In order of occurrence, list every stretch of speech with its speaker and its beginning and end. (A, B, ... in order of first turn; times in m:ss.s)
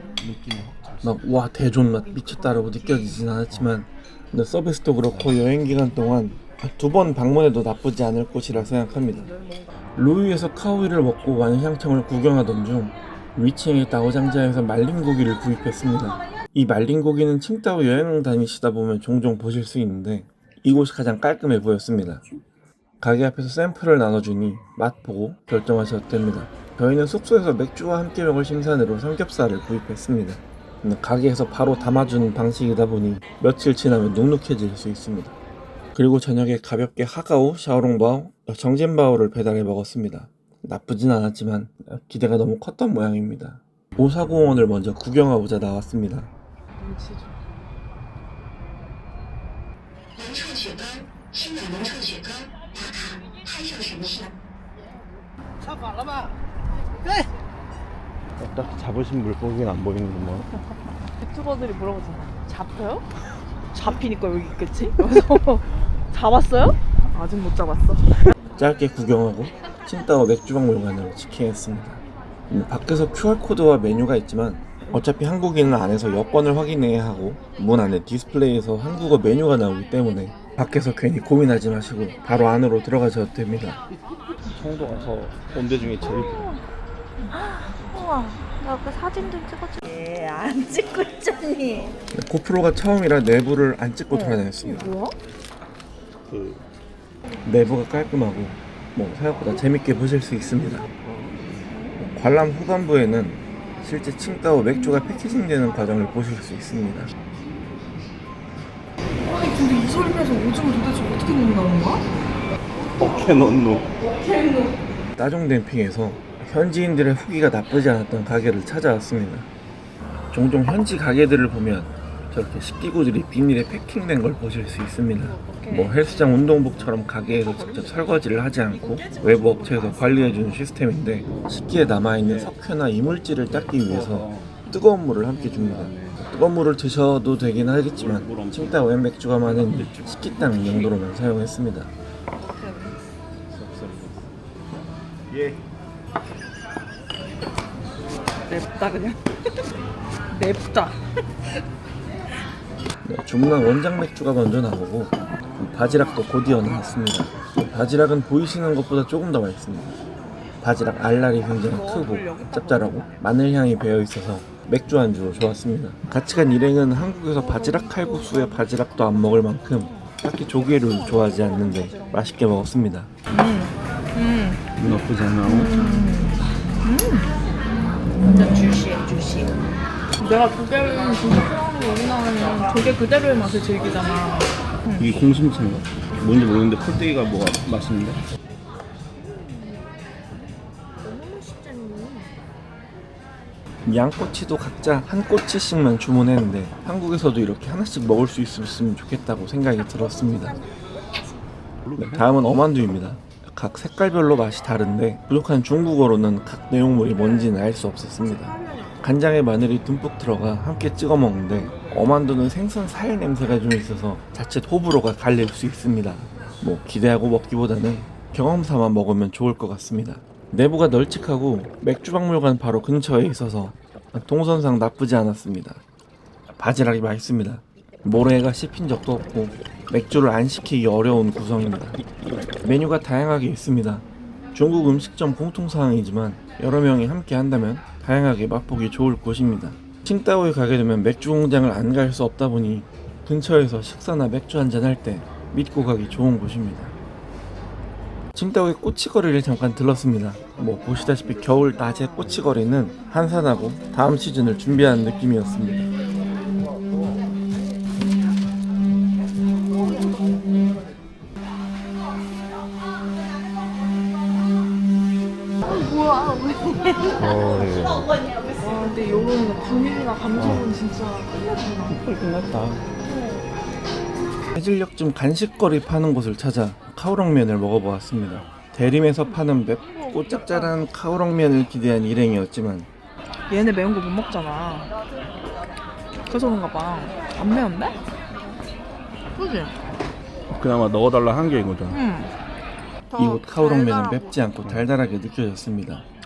0:00.2-0:01.2 A
0:01.0-0:09.3 B
0:09.0-0:09.7 C
0:10.0-0:22.2 B
0:23.0-0:35.3 B
0:35.9-0:46.3 B
0:46.8-0:47.3 C
0:58.4-1:00.5 A
1:01.2-1:03.0 C
1:03.7-1:08.2 C
1:08.6-1:23.8 B
1:24.5-1:26.5 A
1:26.0-1:26.6 C
1:27.3-1:32.0 C
1:32.1-1:34.9 B
1:34.1-1:35.2 C
1:36.3-1:36.6 A
1:37.4-1:40.9 B
1:41.1-1:41.4 A
1:41.7-1:42.0 C
1:42.0-1:47.1 B
1:49.2-1:52.0 C
1:53.0-1:53.9 A
1:55.2-1:59.5 B
2:00.3-2:21.9 B
2:05.2-2:06.4 C
2:07.3-2:08.2 C
2:08.7-2:10.5 C
2:12.2-2:12.5 A
2:13.5-2:14.5 A
2:15.3-2:16.2 A
2:17.8-2:18.9 A
2:19.4-2:21.0 A
2:22.4-2:22.9 C
2:23.5-2:24.3 A
2:25.3-2:25.6 A
2:28.5-2:29.2 C
2:30.3-2:31.0 C
2:33.0-2:40.0 B
2:40.6-2:53.1 B
2:41.6-2:43.3 C
2:47.3-2:49.0 C
2:49.6-2:50.1 C
2:50.7-2:52.4 C
2:53.3-2:54.6 C
2:54.8-2:55.7 A
2:55.4-2:57.3 C
2:58.2-2:59.6 C
3:00.2-3:05.1 C
3:05.0-3:08.2 A
3:09.2-3:12.4 C
3:13.8-3:20.6 B
3:20.1-3:20.7 C
3:21.8-3:22.4 A
3:22.0-3:45.8 B
3:46.6-3:52.0 B
3:52.6-4:06.9 B
4:08.4-4:15.9 B
4:25.7-4:27.6 C
4:27.2-4:28.2 A
4:28.6-4:32.0 C
4:30.4-4:30.7 A
4:31.9-4:32.9 A
4:33.1-4:33.4 C
4:34.6-4:42.9 B
4:39.8-4:40.8 C
4:43.5-4:44.9 C
4:46.3-4:48.5 C
4:49.4-4:49.8 C
4:50.5-4:52.0 A
4:51.9-4:52.3 C
4:53.1-4:54.3 C
4:53.2-4:56.0 B
4:54.6-4:54.9 A